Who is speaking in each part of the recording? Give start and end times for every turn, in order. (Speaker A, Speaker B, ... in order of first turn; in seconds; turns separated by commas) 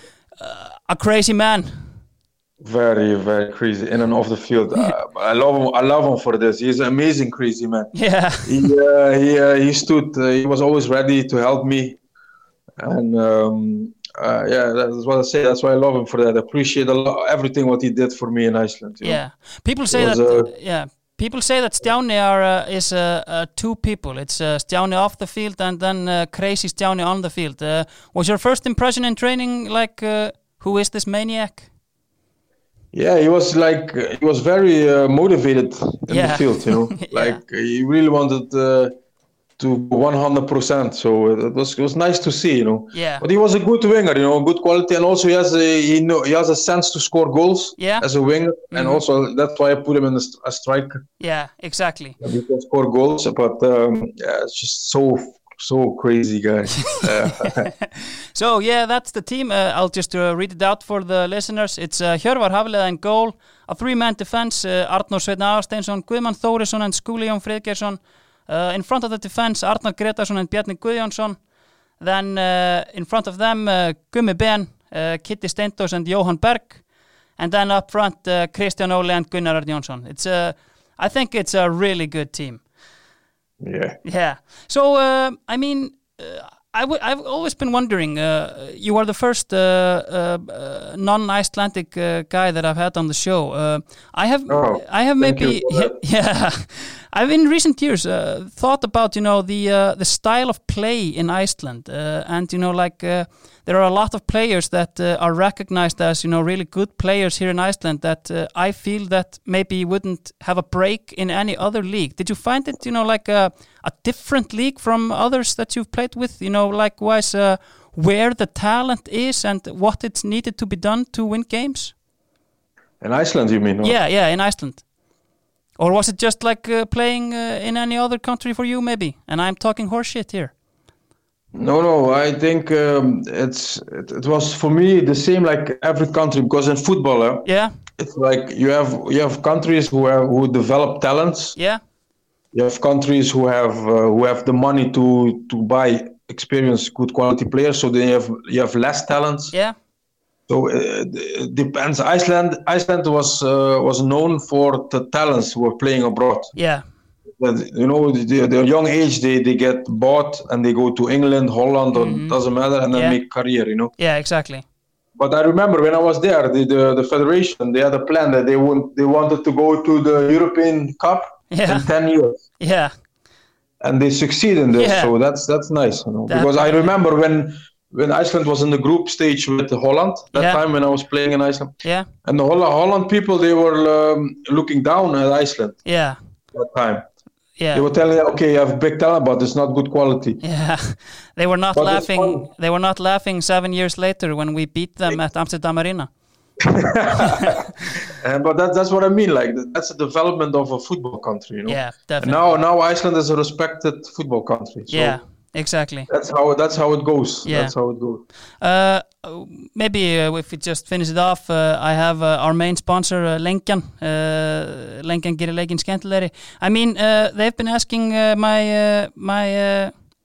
Speaker A: 0.4-1.7, Speaker B: 2.6-7.9, Speaker A: 7.9-8.7, Speaker B: 8.4-12.0, Speaker B: 12.8-19.2, Speaker A: 19.0-31.7, Speaker B: 19.9-20.5, Speaker B: 32.9-38.9, Speaker A: 36.1-37.4, Speaker B: 39.6-51.0, Speaker A: 42.9-43.2, Speaker A: 47.8-48.0, Speaker A: 48.7-49.0, Speaker A: 51.2-52.2, Speaker B: 52.2-57.7, Speaker A: 56.9-71.4, Speaker A: 72.0-76.8, Speaker A: 77.4-82.6, Speaker B: 83.6-84.0, Speaker A: 84.0-121.9, Speaker B: 94.5-96.0, Speaker B: 123.0-123.9, Speaker A: 123.8-124.8, Speaker A: 125.8-130.5, Speaker B: 131.5-141.6, Speaker A: 137.4-137.7, Speaker B: 142.5-149.5, Speaker B: 150.5-156.5, Speaker A: 156.6-156.8, Speaker B: 157.4-163.9, Speaker A: 161.9-162.3, Speaker A: 162.9-163.2, Speaker A: 164.0-164.6, Speaker B: 165.2-172.4, Speaker A: 171.5-171.9, Speaker A: 172.6-172.9, Speaker B: 173.8-185.8, Speaker A: 174.8-175.1, Speaker A: 176.3-176.9, Speaker A: 180.3-180.6, Speaker A: 185.8-186.2, Speaker B: 186.5-187.0, Speaker A: 187.6-187.8, Speaker B: 187.7-190.4, Speaker A: 190.4-196.1, Speaker B: 191.7-192.5, Speaker B: 196.6-205.2, Speaker A: 197.1-197.7, Speaker A: 201.7-202.4, Speaker A: 204.9-206.1, Speaker B: 206.1-208.2, Speaker A: 207.4-207.7, Speaker A: 208.6-219.9